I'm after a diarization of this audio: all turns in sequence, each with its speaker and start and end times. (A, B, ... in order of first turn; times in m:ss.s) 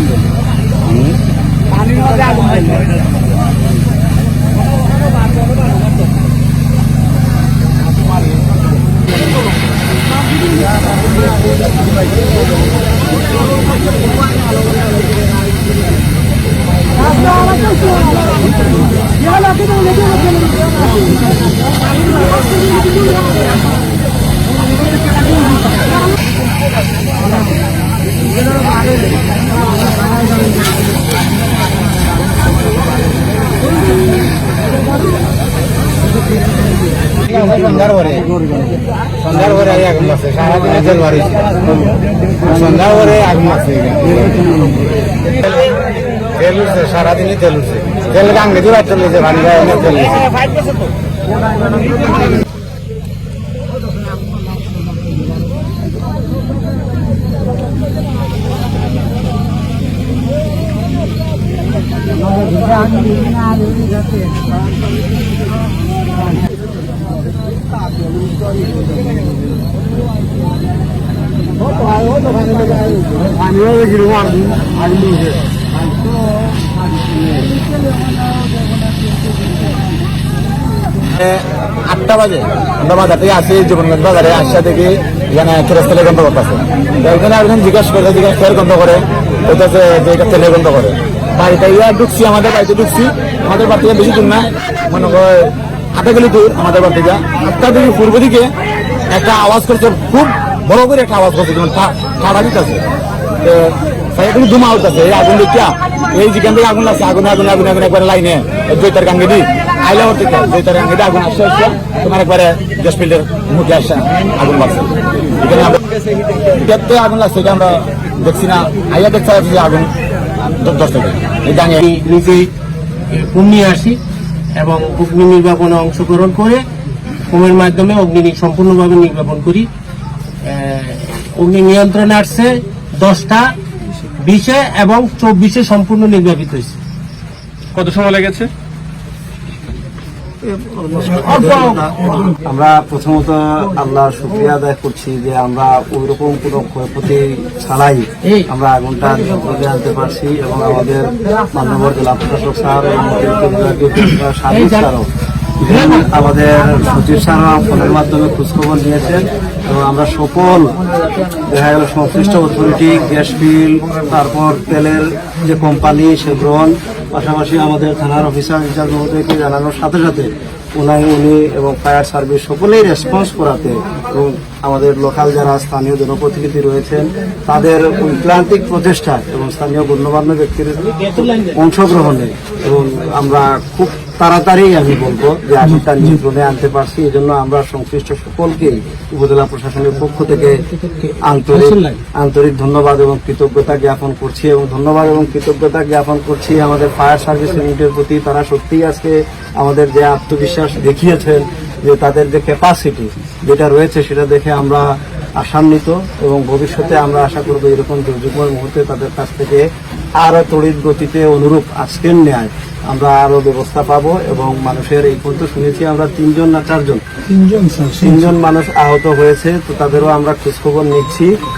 0:02.1-0:02.8 A
0:37.3-0:38.3 A
0:39.2-0:41.5 A
0:42.6-0:44.2 A
0:46.4-0:50.4 A
1:21.2-1:38.5 A
1:39.1-1:42.8 A
1:43.4-1:55.8 A
1:56.6-1:59.9 A
2:00.6-2:01.8 A
2:01.8-2:02.5 B
2:03.1-2:04.0 B
2:04.6-2:06.6 B
2:07.3-2:09.7 B
2:10.4-2:13.5 B
2:14.2-2:16.8 B
2:17.8-2:18.5 B
2:20.4-2:35.1 C
2:34.5-2:34.9 B
2:35.6-2:40.8 C
2:35.7-2:36.0 B
2:41.4-3:10.6 C
3:11.2-3:29.7 C
3:11.5-3:12.0 B
3:30.2-3:37.0 C
3:37.9-3:41.3 C